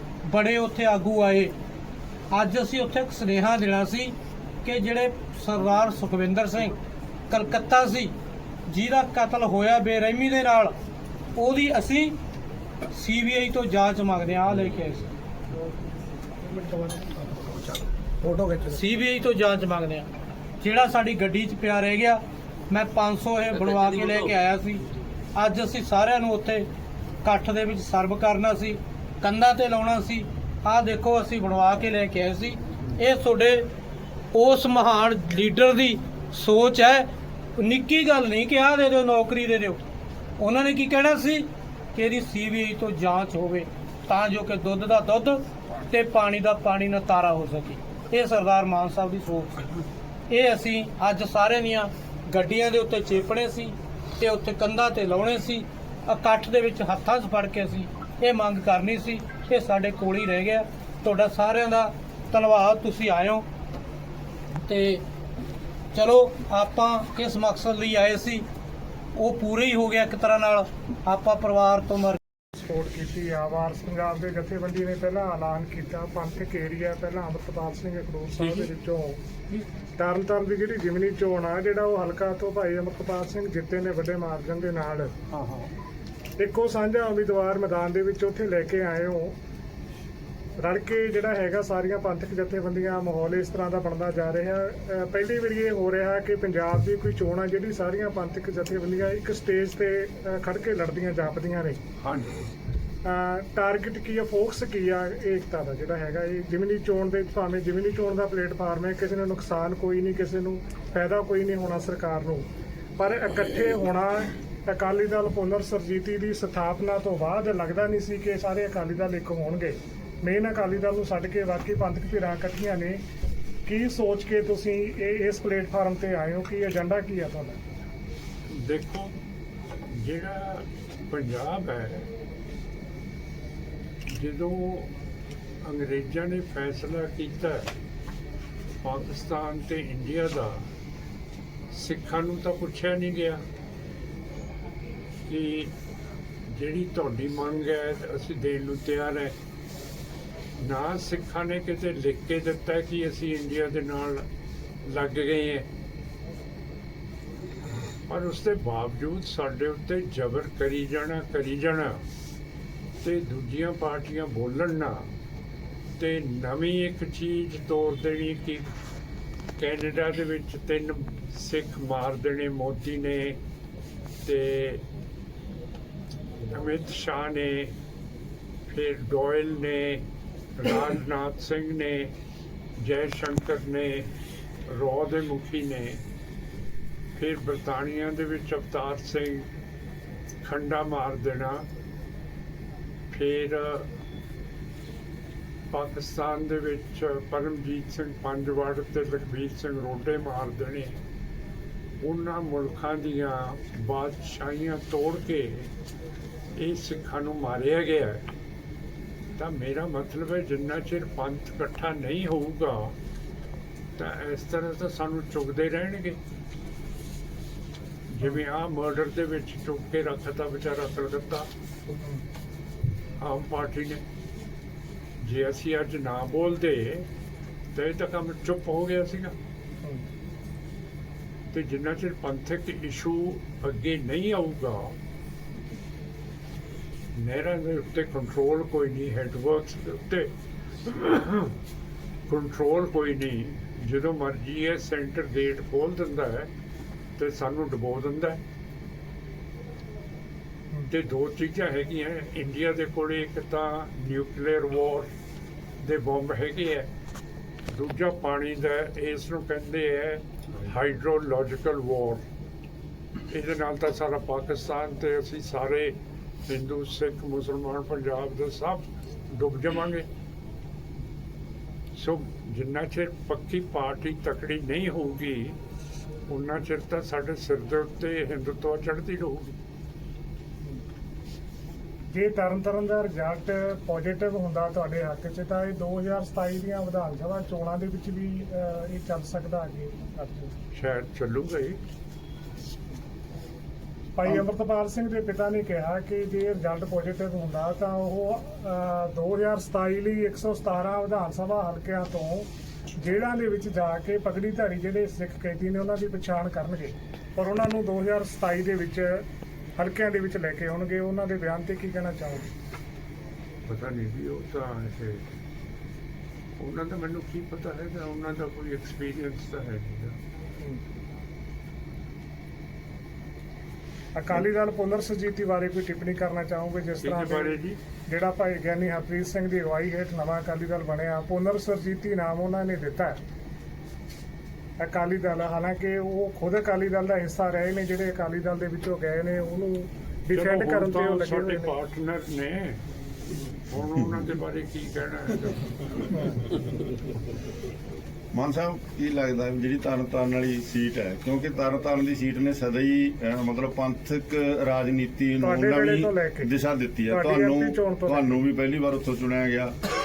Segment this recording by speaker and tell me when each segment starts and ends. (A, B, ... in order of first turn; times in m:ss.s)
0:00.2-0:01.5 A
0:02.3-0:06.7 A
0:07.3-0:08.1 A
0:08.7-0:10.7 A
0:11.4-0:12.2 A
0:12.9-0:15.1 A
0:16.4-0:18.6 B
0:18.6-0:20.1 A
0:20.6-0:24.8 A
0:25.3-0:26.7 A
0:27.2-0:33.7 A
0:34.3-0:39.8 A
0:40.4-0:49.7 A
0:50.3-1:03.4 A
1:04.6-1:05.0 A
1:05.9-1:08.4 A
1:09.1-1:12.2 A
1:12.5-1:19.2 B
1:20.0-1:25.1 B
1:25.3-1:25.7 C
1:26.4-1:29.3 B
1:30.6-1:41.8 B
1:42.0-1:42.5 C
1:43.0-1:52.4 B
1:53.0-2:03.0 B
2:03.6-2:07.7 B
2:08.5-2:09.1 C
2:09.9-2:12.1 C
2:14.1-2:14.9 C
2:15.6-2:17.7 C
2:18.8-2:20.7 C
2:21.7-2:23.4 C
2:25.3-2:25.7 C
2:26.5-2:29.3 C
2:30.6-2:34.3 C
2:34.8-2:35.7 C
2:38.1-2:42.0 C
2:43.0-2:45.1 C
2:46.0-2:48.7 C
2:49.6-2:53.4 C
2:54.2-2:54.8 C
2:56.4-2:57.8 C
2:58.7-3:00.0 C
3:00.6-3:02.1 C
3:02.8-3:04.1 C
3:04.7-3:06.0 C
3:07.1-3:09.5 C
3:10.4-3:11.7 C
3:13.1-3:13.9 C
3:15.7-3:21.0 C
3:22.0-3:25.7 C
3:26.6-3:28.3 C
3:29.4-3:33.0 C
3:34.0-3:36.2 C
3:38.1-3:41.5 C
3:41.9-3:42.2 B
3:43.2-3:44.0 C
3:45.2-3:47.1 C
3:47.7-3:49.3 C
3:51.5-3:55.0 C
3:57.1-4:00.3 C
4:00.8-4:01.5 C
4:02.3-4:06.5 C
4:07.2-4:08.4 C
4:10.9-4:15.1 C
4:15.8-4:16.9 C
4:17.7-4:22.2 C
4:23.3-4:26.0 C
4:26.5-4:30.1 C
4:32.0-4:35.6 C
4:36.3-4:39.6 C
4:42.1-4:50.5 B
4:50.7-4:51.8 C
4:54.2-5:09.2 B
5:09.8-5:12.5 B
5:13.7-5:15.2 C
5:16.6-5:20.2 C
5:24.1-5:33.2 B
5:27.0-5:27.8 C
5:34.8-5:41.7 B
5:40.3-5:42.8 C
5:43.7-5:46.2 C
5:48.3-5:59.8 D
5:55.4-5:56.5 B
5:57.1-5:58.4 B